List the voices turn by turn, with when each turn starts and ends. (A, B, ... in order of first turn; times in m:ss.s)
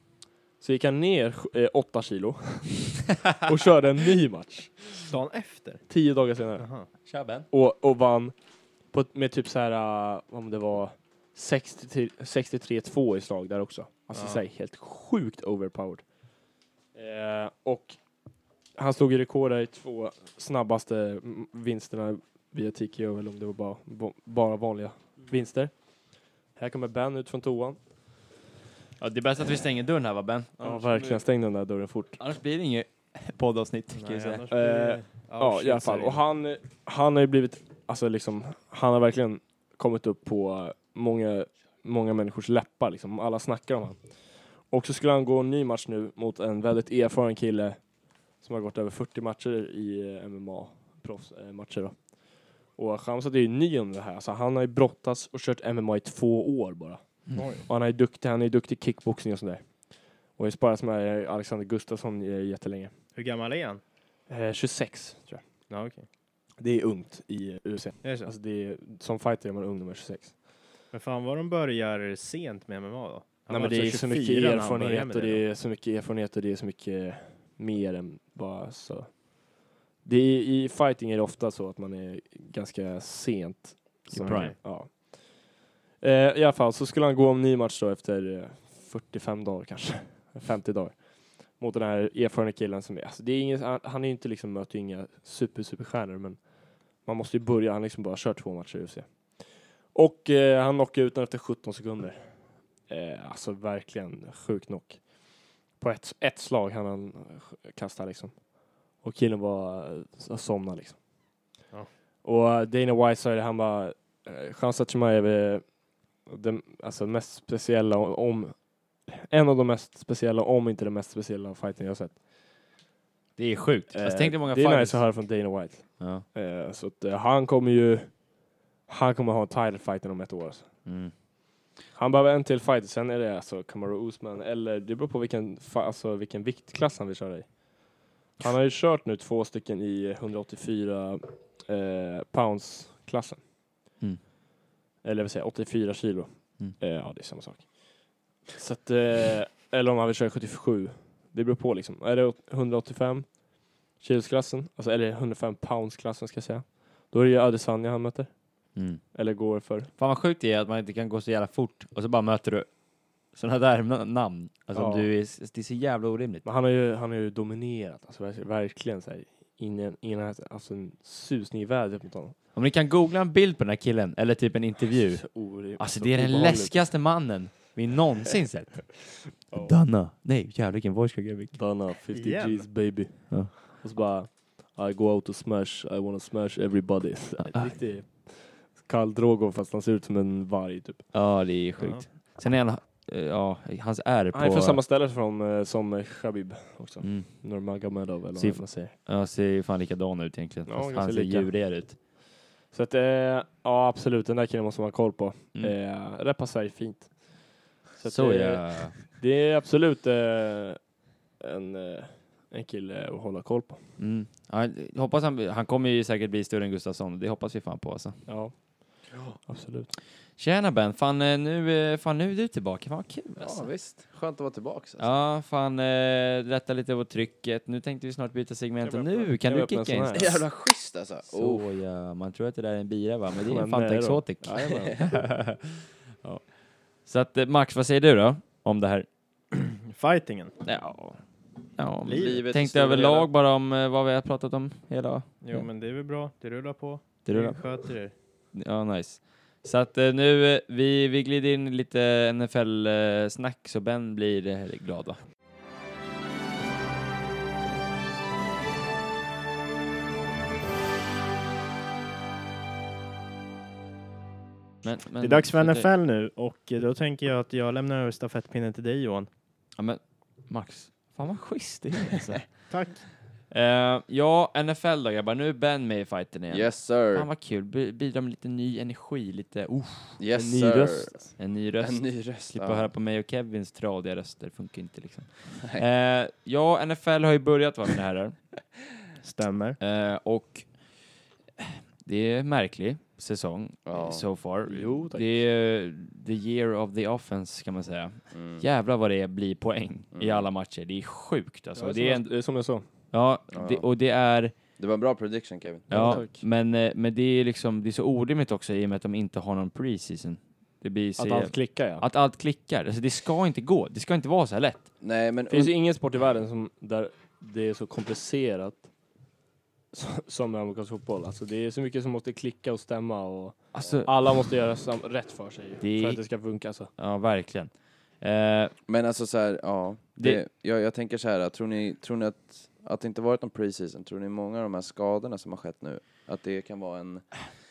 0:00.6-0:05.0 A
0:05.0-0:05.8 B
0:05.9-0:06.7 A
0:06.6-0:06.9 B
0:07.0-0:07.4 C
0:07.5-0:08.3 A
0:08.9-0:16.0 A
0:14.1-0:14.4 B
0:16.9-0:18.0 A
0:18.8-0:25.7 A
0:26.5-0:27.8 A
0:29.0-0:31.2 C
0:30.6-0:32.2 A
0:32.2-0:34.4 C
0:33.9-0:36.2 B
0:34.5-1:02.9 A
0:57.4-0:57.6 B
1:03.1-1:03.8 B
1:04.3-1:05.4 A
1:05.7-1:06.0 B
1:06.6-1:10.4 A
1:08.0-1:08.3 B
1:10.9-1:15.4 B
1:13.5-1:36.4 A
1:24.1-1:24.6 C
1:24.1-1:24.6 B
1:37.0-1:51.0 A
1:52.2-1:55.7 A
1:56.2-2:02.2 A
2:03.4-2:05.0 C
2:03.9-2:10.7 A
2:10.9-2:11.1 C
2:11.9-2:23.4 A
2:25.0-2:38.3 A
2:38.7-2:39.0 C
2:39.1-2:39.9 A
2:40.0-2:42.7 C
2:43.3-2:46.4 C
2:44.7-2:45.1 A
2:46.4-2:52.4 A
2:52.5-3:01.6 C
2:54.8-2:56.8 A
3:01.5-3:11.1 A
3:02.1-3:02.7 B
3:07.4-3:07.7 C
3:11.1-3:14.8 C
3:11.8-3:12.0 B
3:14.3-3:18.9 A
3:17.0-3:17.4 C
3:18.4-3:22.0 C
3:20.7-3:22.0 A
3:22.7-3:30.8 A
3:28.0-3:29.0 C
3:31.4-3:33.9 A
3:34.0-3:38.2 C
3:38.3-3:39.9 A
3:40.4-3:43.7 C
3:43.4-3:45.1 D
3:45.0-3:50.4 C
3:48.8-3:50.4 A
3:50.1-3:51.6 D
3:51.2-3:55.6 C
3:53.5-3:54.9 A
3:54.6-3:55.2 D
3:57.0-3:59.0 C
3:59.5-4:00.5 B
4:00.6-4:01.2 C
4:01.8-4:05.6 C
4:02.0-4:02.4 B
4:02.0-4:03.3 D
4:05.4-4:08.1 B
4:07.2-4:07.8 C
4:08.5-4:15.2 C
4:24.8-4:25.9 C
4:25.2-4:29.3 B
4:29.8-4:32.7 C
4:32.7-4:33.0 B
4:33.5-4:40.2 C
4:36.5-4:37.3 D
4:40.2-4:42.9 D
4:40.3-4:41.3 A
4:41.4-4:48.4 C
4:49.2-4:49.8 B
4:49.8-4:50.7 C
4:51.6-5:02.3 C
4:53.9-4:54.2 D
4:54.6-4:55.4 A
4:58.3-4:58.6 D
5:00.1-5:00.4 D
5:01.8-5:02.8 A
5:03.1-5:04.6 C
5:03.5-5:03.8 D
5:04.8-5:06.2 D
5:05.9-5:14.9 C
5:05.9-5:06.4 A
5:11.2-5:12.0 A
5:15.0-5:15.7 D
5:15.5-5:18.9 A
5:19.9-5:26.9 A
5:23.7-5:24.1 C
5:25.8-5:26.2 C
5:27.0-5:28.7 C
5:28.9-5:37.2 D